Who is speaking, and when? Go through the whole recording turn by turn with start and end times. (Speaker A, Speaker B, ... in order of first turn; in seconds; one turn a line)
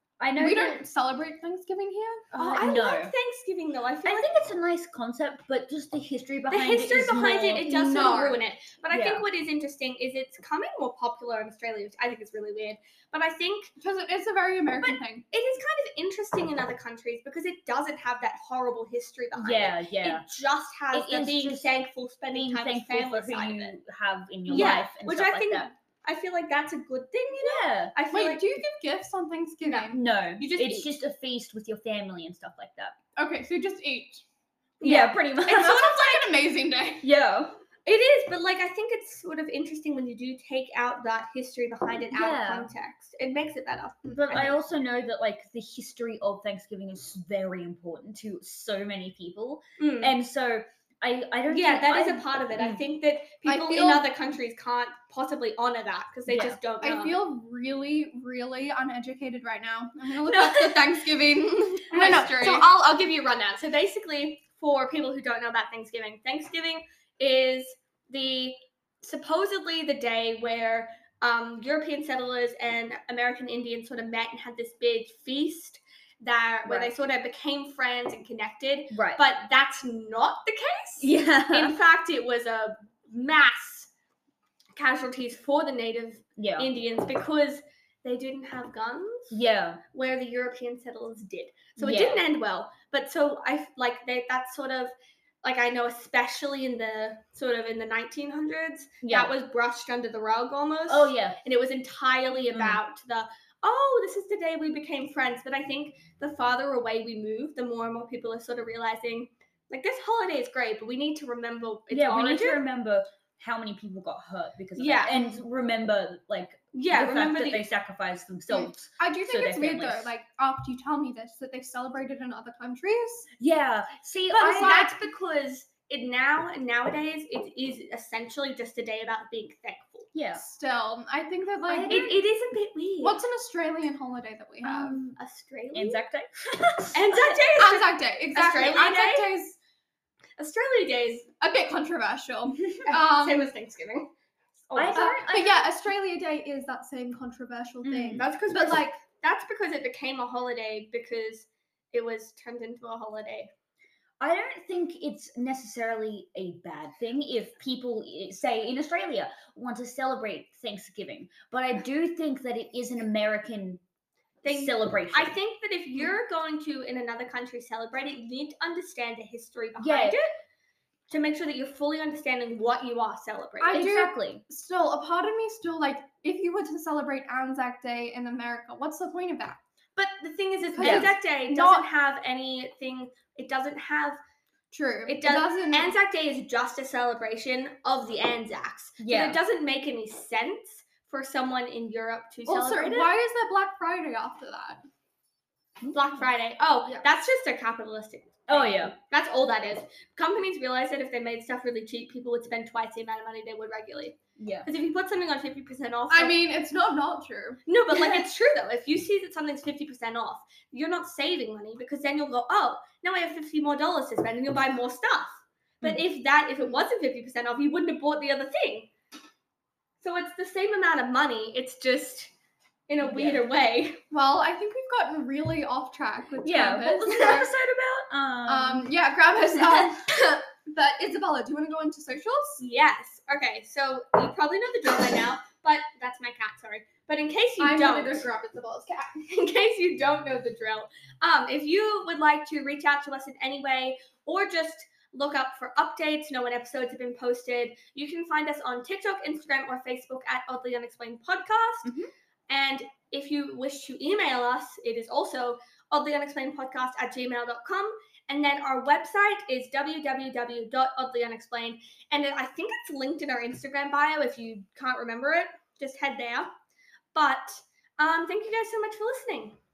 Speaker A: 0.2-0.8
Speaker B: 0.3-2.7
Speaker C: 2.3-4.3
Speaker A: 2.4-3.1
Speaker A: 4.0-7.8
Speaker C: 6.5-13.7
Speaker B: 7.7-8.4
Speaker A: 8.9-9.2
Speaker B: 13.8-15.2
Speaker C: 14.8-23.8
Speaker A: 19.3-20.3
Speaker A: 20.9-21.7
Speaker A: 22.3-25.7
Speaker C: 24.5-28.5
Speaker B: 24.5-24.8
Speaker A: 27.4-27.9
Speaker B: 28.1-30.0
Speaker C: 29.6-30.9
Speaker A: 29.9-33.0
Speaker B: 33.1-34.2
Speaker C: 34.8-35.2
Speaker A: 34.8-36.1
Speaker B: 35.4-37.1
Speaker A: 37.0-37.6
Speaker C: 37.9-44.5
Speaker A: 42.1-42.7
Speaker A: 44.1-52.8
Speaker C: 49.8-50.1
Speaker C: 51.5-57.2
Speaker B: 53.4-54.1
Speaker A: 56.3-56.6
Speaker B: 56.8-62.7
Speaker C: 60.3-60.9
Speaker C: 61.9-83.9
Speaker A: 76.6-76.9
Speaker A: 78.9-79.2
Speaker A: 81.0-81.8
Speaker C: 84.8-89.4
Speaker A: 86.4-86.7
Speaker A: 89.3-89.8
Speaker C: 89.9-112.6
Speaker A: 91.8-92.2
Speaker A: 99.0-99.3
Speaker A: 100.9-101.4
Speaker A: 102.5-102.8
Speaker A: 111.9-120.1
Speaker C: 114.8-115.1
Speaker C: 116.7-117.6
Speaker B: 118.5-123.3
Speaker A: 123.4-124.8
Speaker C: 124.3-130.1
Speaker B: 124.4-124.9
Speaker A: 130.1-130.4
Speaker B: 130.3-132.1
Speaker A: 131.7-132.2
Speaker C: 131.9-133.2
Speaker B: 133.0-135.0
Speaker A: 134.6-135.2
Speaker C: 135.2-136.0
Speaker A: 135.7-137.3
Speaker C: 136.9-139.4
Speaker B: 137.5-139.6
Speaker C: 140.4-141.3
Speaker B: 141.4-143.5
Speaker C: 142.8-144.1
Speaker C: 144.6-145.2
Speaker A: 144.7-145.7
Speaker B: 144.9-149.0
Speaker A: 147.8-148.2
Speaker C: 148.2-153.5
Speaker A: 154.2-163.8
Speaker C: 164.4-170.3
Speaker A: 164.4-165.3
Speaker A: 169.8-170.2
Speaker C: 171.1-173.8
Speaker B: 173.6-179.6
Speaker A: 173.7-174.4
Speaker C: 179.9-184.2
Speaker B: 180.7-181.8
Speaker A: 180.8-181.1
Speaker B: 184.7-185.9
Speaker C: 185.1-193.2
Speaker A: 189.0-189.4
Speaker B: 192.4-194.8
Speaker C: 195.9-206.4
Speaker A: 198.5-198.9
Speaker A: 204.4-204.7
Speaker B: 206.1-208.1
Speaker C: 207.7-218.9
Speaker C: 220.0-222.3
Speaker C: 222.9-224.0
Speaker A: 223.0-223.4
Speaker B: 224.1-227.5
Speaker A: 226.4-228.9
Speaker B: 228.4-232.6
Speaker A: 229.6-229.9
Speaker C: 232.6-238.2
Speaker B: 237.6-239.1
Speaker C: 239.1-251.9
Speaker A: 251.8-252.1
Speaker C: 252.5-266.5
Speaker C: 267.1-269.6